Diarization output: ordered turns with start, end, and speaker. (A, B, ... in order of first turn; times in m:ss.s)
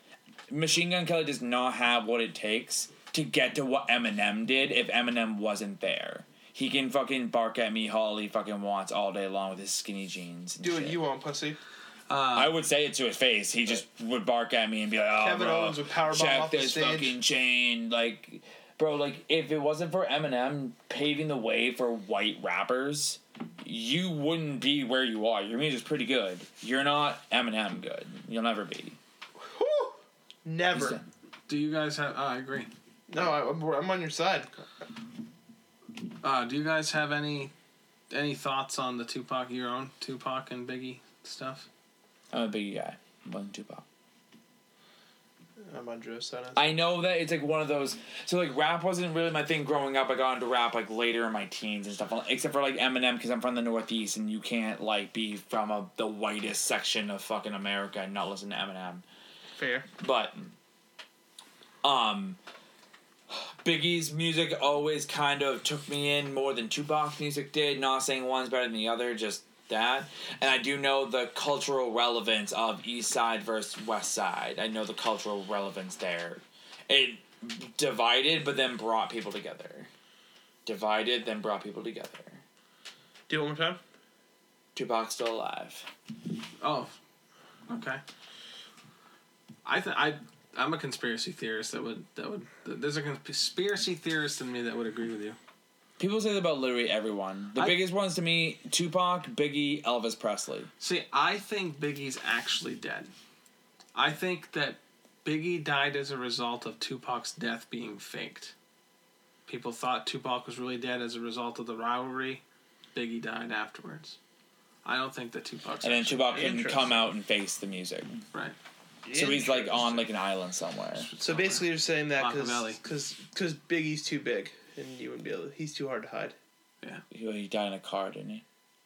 0:00.5-0:11.0 A
0:10.6-0:11.6 B
0:12.1-0:12.6 C
0:12.3-0:29.0 A
0:15.2-0:17.2 B
0:29.4-0:31.0 B
0:30.8-0:31.0 A
0:31.5-0:32.7 C
0:33.1-0:34.6 B
0:36.2-0:37.5 C
0:38.1-0:41.7 C
0:42.3-0:43.8 A
0:45.6-0:46.6 B
0:46.6-0:59.0 A
0:59.6-0:59.8 B
1:00.0-1:00.5 A
1:01.8-1:02.4 A
1:03.3-1:19.9 A
1:20.6-1:22.4 A
1:23.3-1:23.8 B
1:24.7-1:25.9 A
1:26.6-1:26.9 C
1:27.7-1:28.0 C
1:29.6-1:35.4 C
1:36.0-1:40.7 A
1:40.8-1:43.1 C
1:43.9-1:48.5 C
1:49.5-1:52.4 C
1:52.9-1:54.2 C
1:54.8-1:56.5 C
1:55.8-1:58.2 A
1:56.3-1:57.0 B
1:59.0-2:00.1 B
1:59.1-2:01.1 A
2:01.0-2:02.8 C
2:01.2-2:06.4 B
2:07.1-2:08.4 A